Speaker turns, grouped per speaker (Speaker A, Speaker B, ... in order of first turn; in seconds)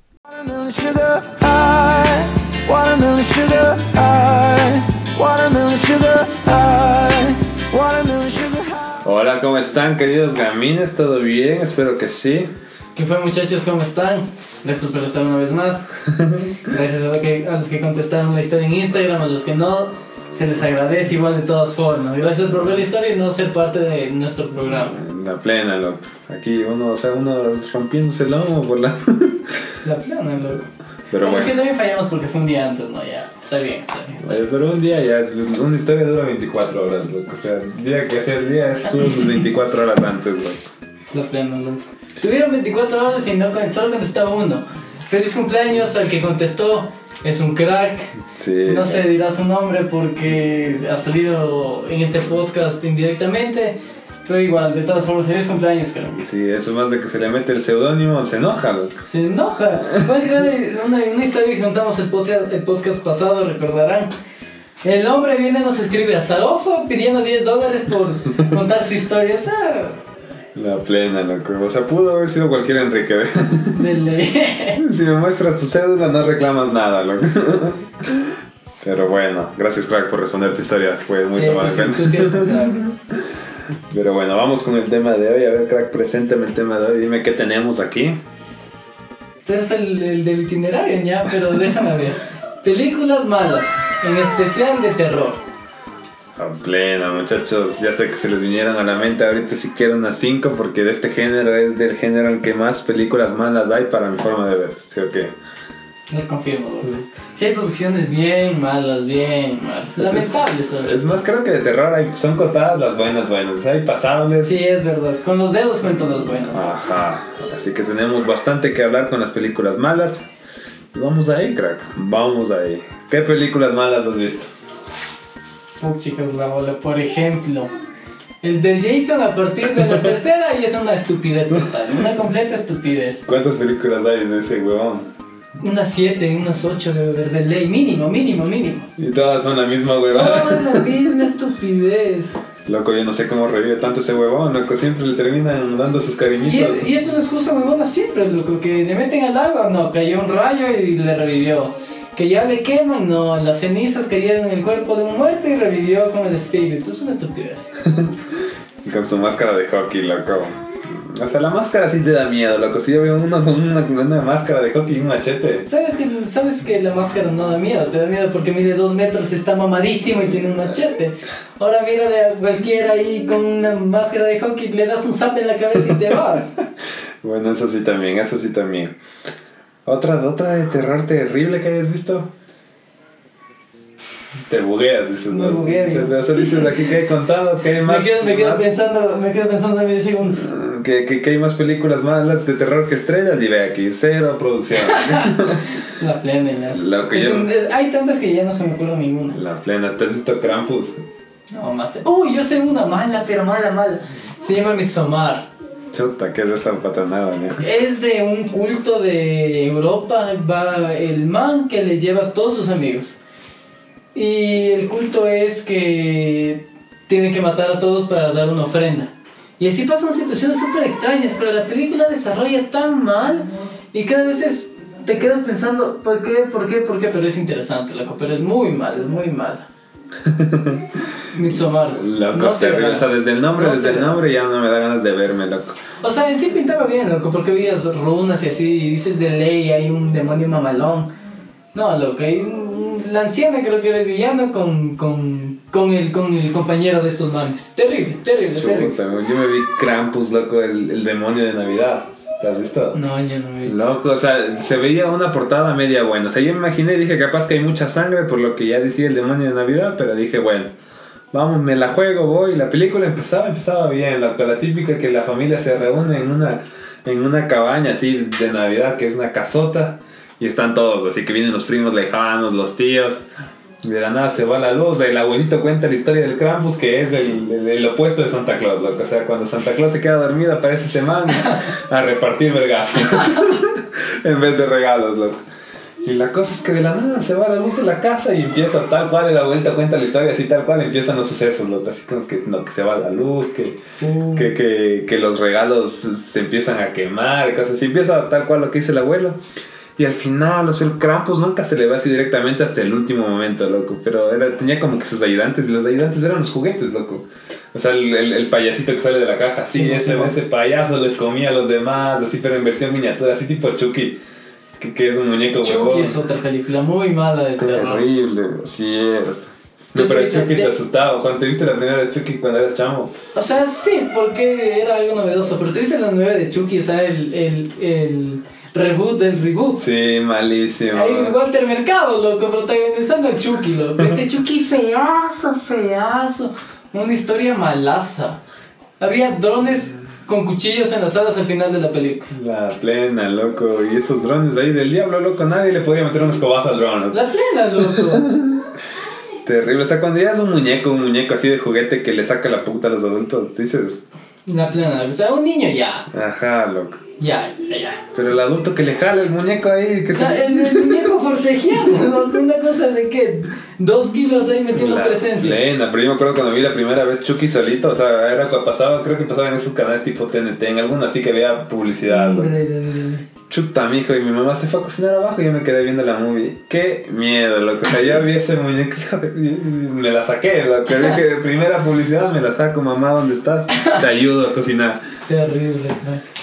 Speaker A: 0.2-9.0
Speaker B: 9.0-12.5, 16.1-16.6, 24.7-29.6, 31.1-31.5, 34.2-40.6, 48.3-49.0, 56.2-59.0, 70.5-73.8, 74.8-83.2, 83.9-88.2, 96.3-105.3, 110.0-114.6, 116.5-120.3, 120.9-124.5, 133.2-135.1, 139.0-140.9, 142.7-146.9, 157.8-158.1, 158.8-165.7, 177.2-178.9, 179.8-182.3, 184.5-188.6, 190.3-195.6, 196.7-197.5, 199.3-201.0, 205.9-207.6, 230.2-231.0, 231.5-235.8, 248.5-253.0, 253.6-260.7, 261.3-273.2, 273.8-285.4, 286.0-293.8, 294.3-299.4, 300.0-314.2, 314.8-316.2, 317.6-323.1, 329.8-331.3, 342.3-347.2, 347.8-348.7, 349.4-354.0, 356.1-357.0, 358.1-361.1, 364.7-372.6, 373.5-385.0
Speaker C: 12.9-15.9, 16.6-25.0, 29.8-30.6, 31.2-34.4, 41.1-56.2, 59.0-64.1, 64.8-70.0, 73.7-74.8, 81.3-82.8, 89.4-95.4, 106.1-111.2, 114.4-116.8, 125.8-127.7, 128.4-133.2, 135.6-138.9, 140.1-142.4, 146.4-157.7, 165.6-176.6, 185.3-186.8, 187.8-190.5, 194.9-199.4, 201.5-205.5, 207.6-213.2, 214.1-229.7, 231.3-234.2, 236.0-241.1, 241.7-248.9, 252.9-254.0, 294.0-294.5, 309.7-310.3, 315.6-318.0, 319.9-320.7, 323.3-329.8, 330.9-338.4, 339.0-342.3, 347.1-348.3, 354.4-356.1, 357.2-358.0, 360.1-365.6, 372.1-373.2, 385.3-386.2